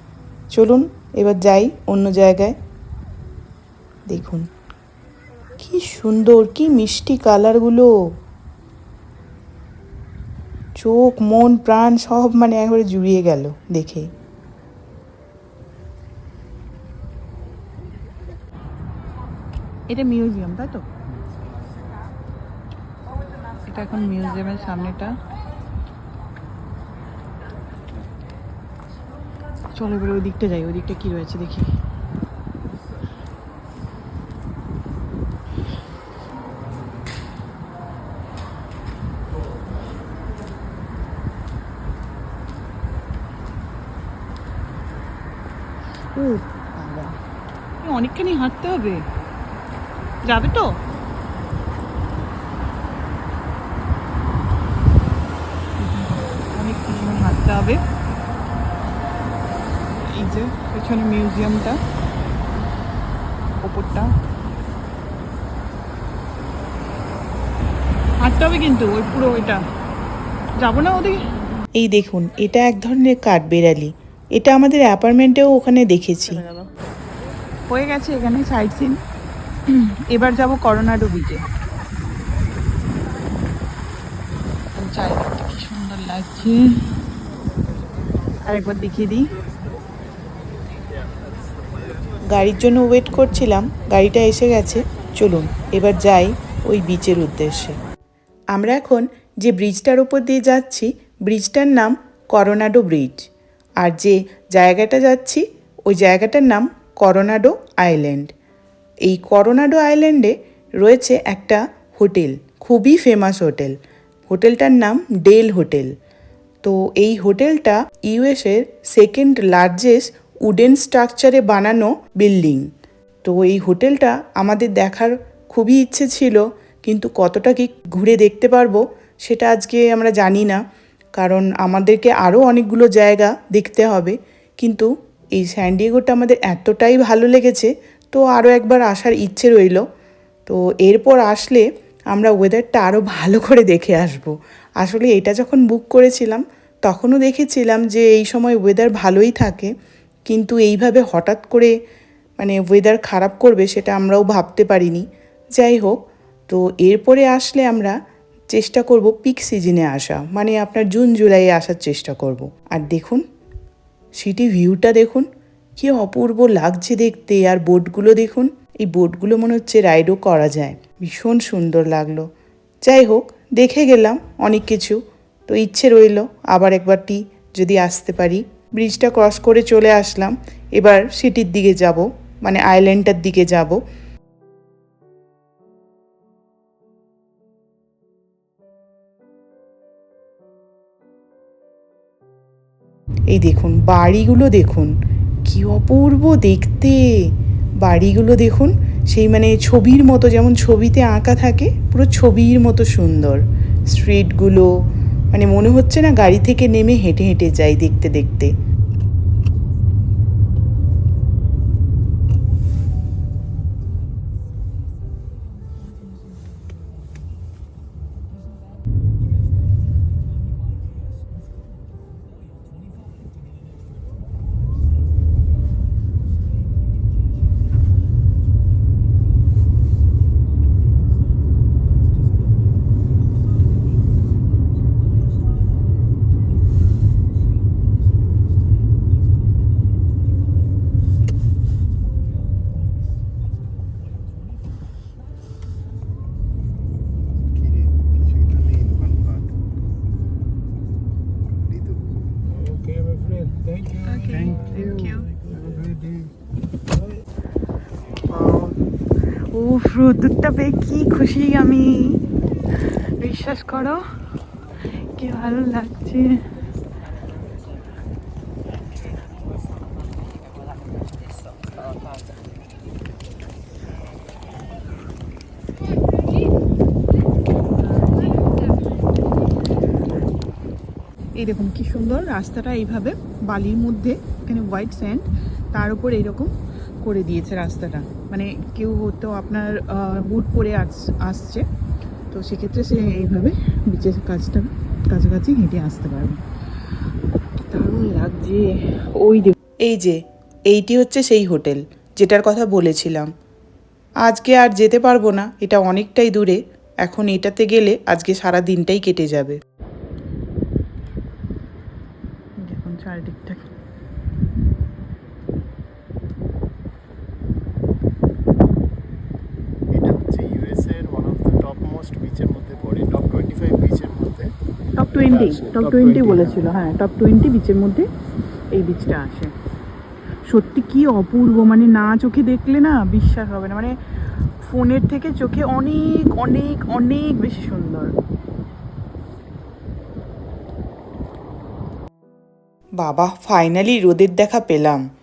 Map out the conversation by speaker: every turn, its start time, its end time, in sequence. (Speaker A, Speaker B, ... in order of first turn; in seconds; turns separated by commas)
Speaker A: 0.5-2.6, Speaker A: 4.1-4.5, Speaker A: 5.6-7.9, Speaker A: 10.8-14.1, Speaker B: 19.9-20.8, Speaker B: 23.7-25.2, Speaker B: 29.8-31.7, Speaker B: 46.2-47.2, Speaker B: 47.8-49.0, Speaker B: 50.3-50.8, Speaker B: 55.8-57.8, Speaker B: 60.1-61.8, Speaker B: 63.6-64.1, Speaker B: 68.2-69.6, Speaker B: 70.6-71.3, Speaker A: 71.8-76.4, Speaker B: 76.3-76.7, Speaker B: 77.7-79.0, Speaker B: 79.7-81.4, Speaker B: 84.8-86.8, Speaker B: 88.4-89.2, Speaker A: 92.3-97.8, Speaker A: 98.5-108.3, Speaker A: 109.0-113.8, Speaker A: 114.3-115.9, Speaker A: 116.6-122.7, Speaker A: 123.2-130.6, Speaker A: 131.2-139.8, Speaker A: 140.4-149.7, Speaker A: 150.3-151.7, Speaker A: 152.4-155.1, Speaker A: 155.6-155.9, Speaker A: 156.5-157.9, Speaker A: 158.5-163.2, Speaker A: 164.2-172.2, Speaker A: 172.8-183.8, Speaker A: 193.3-194.9, Speaker A: 195.4-204.7, Speaker A: 205.3-208.5, Speaker C: 247.8-249.4, Speaker C: 251.7-251.9, Speaker C: 253.3-253.6, Speaker B: 253.9-255.3, Speaker B: 259.5-262.2, Speaker B: 262.8-264.0, Speaker B: 265.2-266.4, Speaker B: 281.4-286.5, Speaker B: 287.0-291.6, Speaker B: 292.3-296.4, Speaker B: 297.7-299.6, Speaker A: 299.8-300.2, Speaker A: 300.7-303.3, Speaker A: 304.2-309.6, Speaker B: 312.7-313.6, Speaker C: 319.9-324.5, Speaker B: 325.0-328.1, Speaker C: 325.4-326.3, Speaker B: 328.7-329.5, Speaker B: 330.5-333.9, Speaker B: 334.6-338.1, Speaker A: 343.0-345.0